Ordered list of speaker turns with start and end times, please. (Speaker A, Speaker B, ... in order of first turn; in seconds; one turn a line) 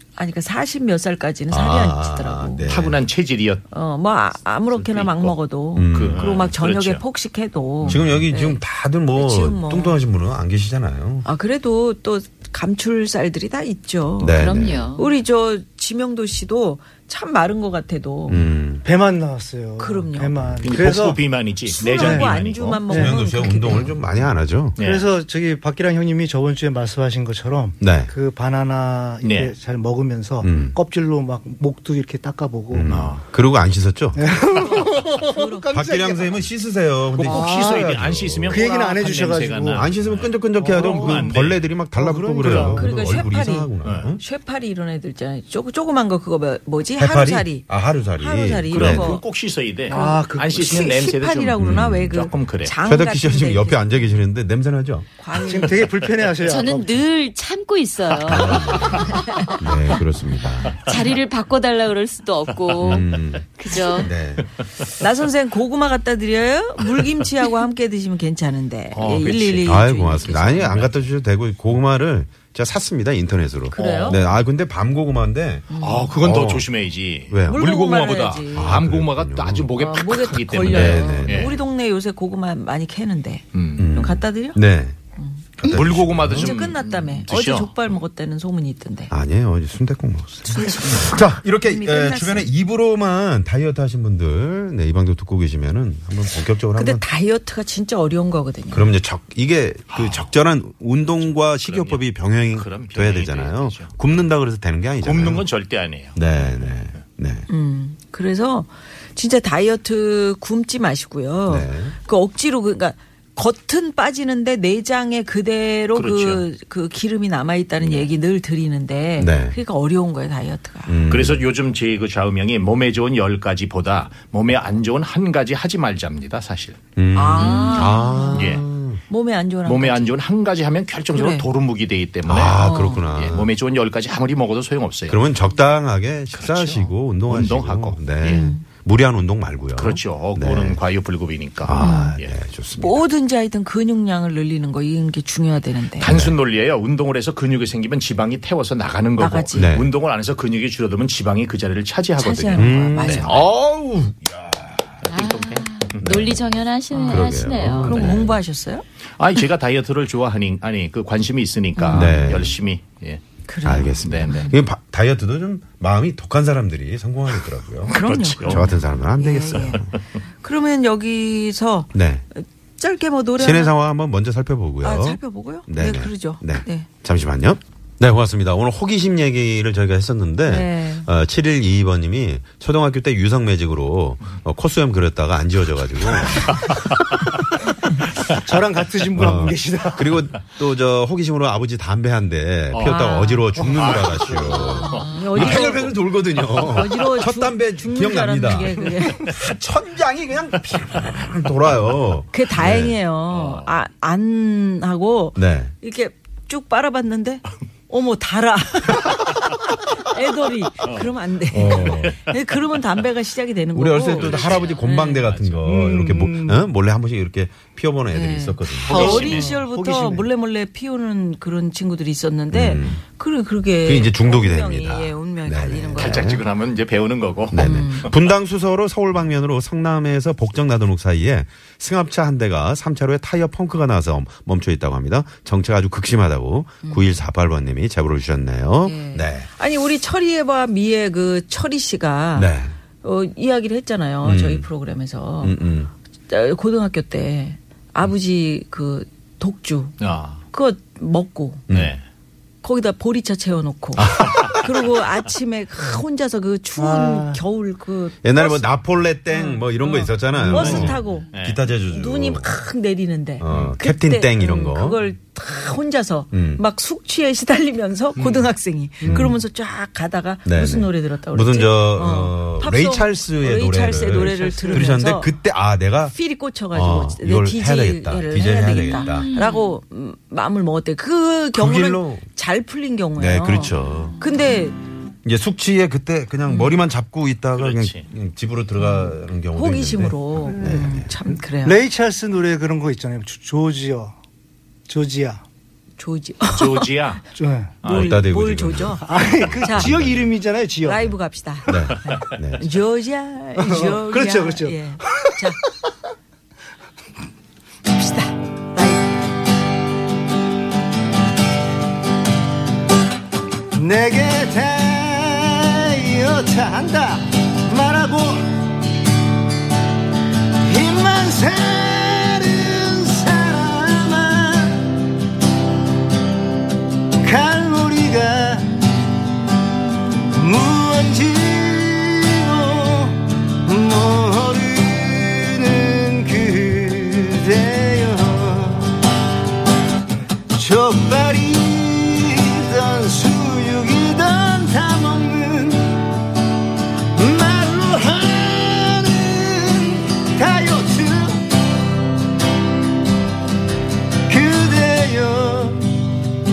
Speaker A: 0.2-2.7
Speaker B: 1.5-3.0
Speaker C: 2.7-3.6
Speaker A: 3.7-8.6
Speaker C: 4.7-5.4
Speaker B: 5.8-6.4
Speaker C: 5.9-7.0
Speaker C: 7.8-8.2
Speaker B: 7.9-11.2
Speaker A: 9.1-10.0
Speaker A: 11.2-18.4
Speaker B: 14.2-14.9
Speaker D: 14.3-15.1
Speaker B: 18.3-18.9
Speaker E: 18.8-21.2
Speaker A: 19.8-20.4
Speaker B: 20.4-20.8
Speaker C: 20.6-22.8
Speaker A: 21.7-24.0
Speaker E: 21.9-22.3
Speaker E: 22.9-23.2
Speaker B: 22.9-24.8
Speaker C: 24.8-25.1
Speaker E: 24.8-32.9
Speaker B: 27.8-28.1
Speaker C: 29.2-29.5
Speaker B: 30.4-30.8
Speaker B: 32.7-34.3
Speaker C: 32.9-33.2
Speaker E: 34.1-36.5
Speaker A: 34.6-35.7
Speaker B: 35.7-38.6
Speaker C: 37.1-41.6
Speaker E: 37.2-37.9
Speaker E: 38.5-39.9
Speaker B: 39.7-44.2
Speaker E: 40.6-41.4
Speaker E: 42.0-42.9
Speaker C: 42.4-42.8
Speaker A: 42.7-49.2
Speaker C: 43.8-44.1
Speaker B: 47.0-49.2
Speaker C: 48.7-52.8
Speaker E: 49.9-50.7
Speaker A: 49.9-54.0
Speaker B: 51.6-52.2
Speaker B: 52.8-55.1
Speaker A: 55.2-55.9
Speaker E: 55.4-57.0
Speaker D: 56.4-60.0
Speaker B: 58.2-60.8
Speaker D: 60.8-64.1
Speaker B: 62.8-63.5
Speaker B: 64.0-64.5
Speaker A: 65.0-70.8
Speaker C: 68.9-69.8
Speaker B: 69.6-76.7
Speaker C: 70.5-71.0
Speaker A: 73.7-74.2
Speaker C: 73.8-74.3
Speaker A: 75.7-76.2
Speaker C: 75.8-81.6
Speaker B: 77.3-77.7
Speaker A: 77.5-78.8
Speaker B: 78.5-79.7
Speaker A: 79.8-84.6
Speaker B: 80.6-81.5
Speaker C: 83.5-83.9
Speaker B: 83.8-85.0
Speaker B: 85.6-86.5
Speaker C: 85.6-87.8
Speaker A: 86.3-89.1
Speaker B: 89.1-97.0
Speaker A: 90.5-92.5
Speaker A: 96.8-98.9
Speaker B: 98.7-105.5
Speaker C: 99.9-100.3
Speaker C: 101.2-104.0
Speaker C: 105.0-106.8
Speaker B: 106.1-107.5
Speaker A: 107.5-121.0
Speaker B: 111.5-112.0
Speaker C: 115.9-116.4
Speaker B: 119.2-119.6
Speaker B: 120.9-121.5
Speaker C: 121.1-126.8
Speaker B: 127.0-129.0
Speaker A: 127.1-130.2
Speaker C: 127.4-128.6
Speaker C: 129.6-132.6
Speaker A: 131.1-131.4
Speaker B: 132.2-133.5
Speaker A: 132.6-133.1
Speaker C: 133.1-135.2
Speaker B: 135.1-140.8
Speaker C: 136.3-138.5
Speaker A: 138.2-138.6
Speaker C: 139.8-142.3
Speaker B: 141.6-143.0
Speaker A: 141.8-142.2
Speaker A: 142.8-146.1
Speaker C: 146.0-153.5
Speaker B: 146.0-146.4
Speaker A: 149.2-149.7
Speaker B: 149.5-149.9
Speaker A: 152.2-153.4
Speaker B: 152.5-154.9
Speaker C: 155.0-156.2
Speaker D: 155.1-158.1
Speaker B: 156.0-156.4
Speaker A: 156.9-158.8
Speaker B: 157.1-158.3
Speaker C: 157.9-158.2
Speaker C: 159.2-163.2
Speaker A: 161.8-162.2
Speaker B: 161.9-162.6
Speaker A: 163.5-164.5
Speaker B: 163.7-169.9
Speaker C: 164.0-164.4
Speaker C: 167.9-168.7
Speaker A: 167.9-169.9
Speaker C: 169.6-169.8
Speaker A: 170.4-173.7
Speaker B: 171.9-172.2
Speaker B: 173.4-186.8
Speaker A: 174.8-176.9
Speaker A: 180.5-181.1
Speaker E: 188.3-190.2
Speaker B: 189.2-203.0
Speaker C: 192.7-193.1
Speaker A: 192.8-193.5
Speaker E: 193.6-194.0
Speaker C: 193.6-195.9
Speaker A: 194.8-199.3
Speaker A: 202.3-215.3
Speaker C: 203.3-203.7
Speaker B: 205.3-205.7
Speaker B: 211.5-212.2
Speaker C: 211.7-212.2
Speaker B: 213.8-219.4
Speaker C: 214.1-215.7
Speaker E: 215.7-216.7
Speaker A: 218.1-226.3
Speaker E: 218.8-220.3
Speaker C: 218.9-219.5
Speaker B: 222.5-223.0
Speaker B: 223.8-226.4
Speaker C: 226.0-228.2
Speaker B: 227.5-239.5
Speaker A: 227.6-228.1
Speaker A: 236.8-237.2
Speaker A: 238.8-245.6
Speaker B: 242.3-242.8
Speaker B: 244.2-244.7
Speaker B: 245.4-245.9
Speaker A: 246.3-249.9
Speaker C: 250.0-250.4
Speaker A: 250.5-251.7
Speaker B: 251.7-251.9
Speaker C: 251.7-252.0
Speaker A: 252.6-258.7
Speaker B: 254.0-254.8
Speaker E: 256.8-257.4
Speaker B: 258.2-262.5
Speaker A: 259.3-261.3
Speaker C: 260.4-261.6
Speaker A: 261.9-275.3
Speaker B: 263.4-265.0
Speaker C: 263.5-263.8
Speaker B: 266.3-266.6
Speaker C: 268.2-268.5
Speaker B: 269.0-269.4
Speaker B: 270.5-276.2
Speaker E: 274.4-274.9
Speaker A: 276.1-284.8
Speaker B: 276.7-279.3
Speaker D: 278.9-279.8
Speaker B: 281.5-282.2
Speaker B: 283.2-284.1
Speaker B: 285.2-291.1
Speaker A: 286.5-286.8
Speaker C: 287.6-288.1
Speaker A: 288.8-291.8
Speaker E: 290.5-290.9
Speaker E: 291.6-294.1
Speaker E: 294.9-295.4
Speaker A: 296.0-296.9
Speaker C: 296.5-297.3
Speaker E: 297.4-297.7
Speaker C: 297.8-298.2
Speaker A: 297.8-299.9
Speaker B: 297.9-300.3
Speaker E: 299.0-301.1
Speaker A: 300.8-305.6
Speaker B: 301.7-302.7
Speaker E: 303.6-305.5
Speaker A: 307.9-309.0
Speaker E: 313.8-318.7
Speaker E: 320.6-325.1
Speaker E: 327.2-328.9
Speaker E: 330.1-339.0
Speaker E: 340.5-346.0
Speaker E: 347.1-351.5
Speaker E: 354.3-356.0